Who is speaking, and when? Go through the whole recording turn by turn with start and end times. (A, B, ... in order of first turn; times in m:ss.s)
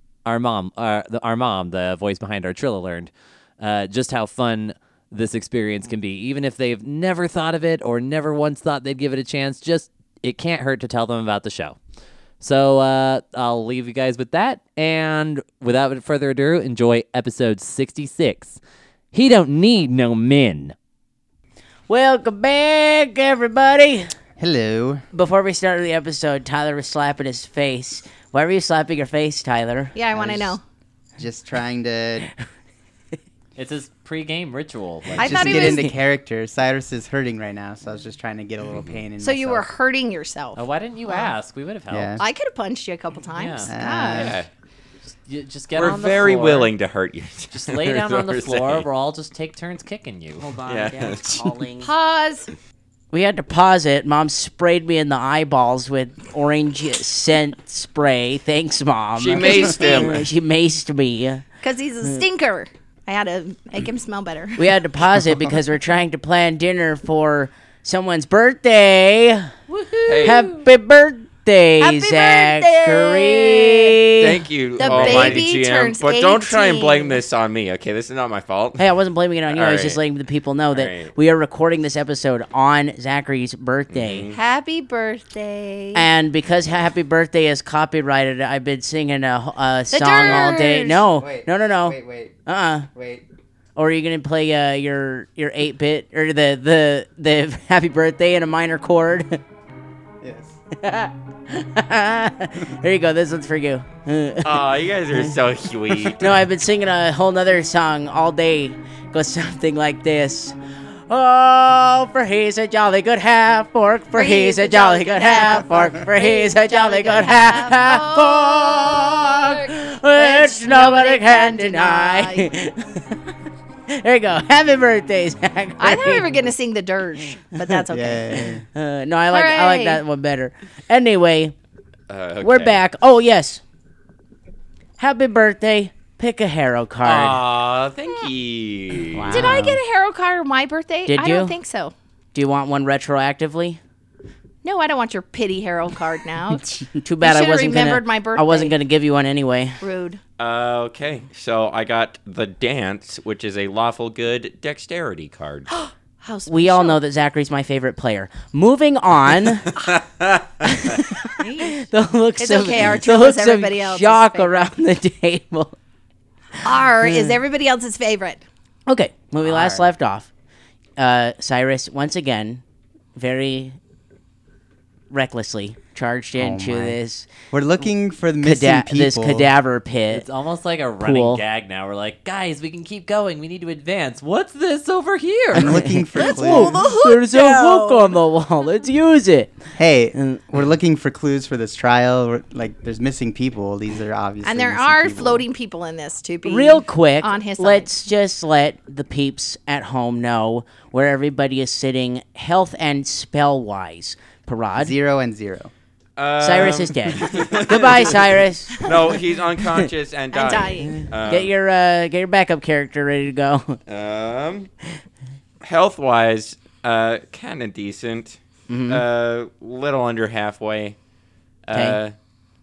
0:00.2-0:11.8 A
0:12.4-0:18.6 A
0:19.1-0:20.8 A
0:21.9-0:24.1 B
0:24.4-0:25.0 C
0:25.1-0:30.0 B
0:30.0-0:30.6 D
0:30.1-0:30.6 C
0:31.2-0:32.3 C
0:33.6-0:35.5 A
0:35.2-0:35.9 D
0:35.2-0:39.7 C
0:35.3-0:35.9 B
0:39.2-0:41.3 D
0:40.6-0:42.2 A
0:41.9-0:42.2 C
0:42.2-0:44.3 D
0:43.3-0:43.7 A
0:43.7-0:44.4 C
0:44.1-0:44.5 E
0:45.3-0:46.7 A
0:45.8-0:48.9 E
0:47.5-0:50.5 A
0:50.4-0:51.9 B
0:50.6-0:51.4 E
0:51.8-0:52.5 D
0:53.1-1:01.4 B
0:59.2-1:00.3 E
0:59.4-1:00.1 D
1:01.6-1:04.7 D
1:04.6-1:09.6 B
1:09.7-1:10.6 A
1:10.1-1:10.4 E
1:10.2-1:14.4 B
1:11.8-1:14.1 D
1:14.2-1:18.8 E
1:14.8-1:17.2 D
1:14.9-1:15.3 C
1:18.8-1:24.3 B
1:19.5-1:20.0 E
1:20.7-1:21.1 E
1:23.9-1:24.4 E
1:24.3-1:26.1 D
1:25.9-1:32.9 B
1:29.9-1:31.0 D
1:30.2-1:32.4 C
1:32.9-1:33.2 C
1:33.8-1:39.4 B
1:40.2-1:40.6 C
1:40.7-1:44.6 B
1:44.4-1:46.4 E
1:46.0-1:50.6 B
1:51.1-2:03.2 B
1:54.1-2:02.5 D
2:03.9-2:06.3 B
2:05.8-2:08.5 D
2:07.9-2:08.6 C
2:08.4-2:11.6 B
2:09.3-2:10.0 D
2:12.1-2:12.8 E
2:12.4-2:13.6 B
2:15.0-2:17.4 B
2:17.0-2:19.6 E
2:19.1-2:19.8 C
2:19.3-2:21.9 D
2:21.1-2:21.6 B
2:22.3-2:23.8 B
2:24.6-2:28.8 D
2:26.8-2:29.8 B
2:29.8-2:30.2 D
2:30.4-2:35.7 E
2:35.7-2:37.0 D
2:36.5-2:39.7 B
2:39.8-2:40.4 E
2:40.6-2:45.8 B
2:41.1-2:44.7 D
2:46.6-2:48.4 D
2:47.0-2:47.4 B
2:48.9-2:50.3 B
2:49.4-2:49.8 C
2:51.0-2:52.6 B
2:53.2-2:53.8 B
2:55.1-2:57.3 B
2:56.4-2:57.0 C
2:57.5-2:59.5 C
2:58.4-3:00.2 B
3:00.1-3:05.9 A
3:01.0-3:01.4 B
3:05.5-3:06.8 C
3:05.6-3:09.6 B
3:06.2-3:08.2 D
3:09.8-3:15.5 C
3:10.2-3:10.4 B
3:14.4-3:17.9 D
3:16.4-3:24.9 B
3:24.8-3:25.7 C
3:26.2-3:31.5 E
3:26.4-3:28.9 B
3:27.3-3:27.5 D
3:30.3-3:31.1 D
3:31.3-3:33.8 B
3:33.9-3:34.7 E
3:35.6-3:41.0 E
3:38.7-3:39.0 B
3:41.7-3:42.2 E
3:41.7-3:42.0 B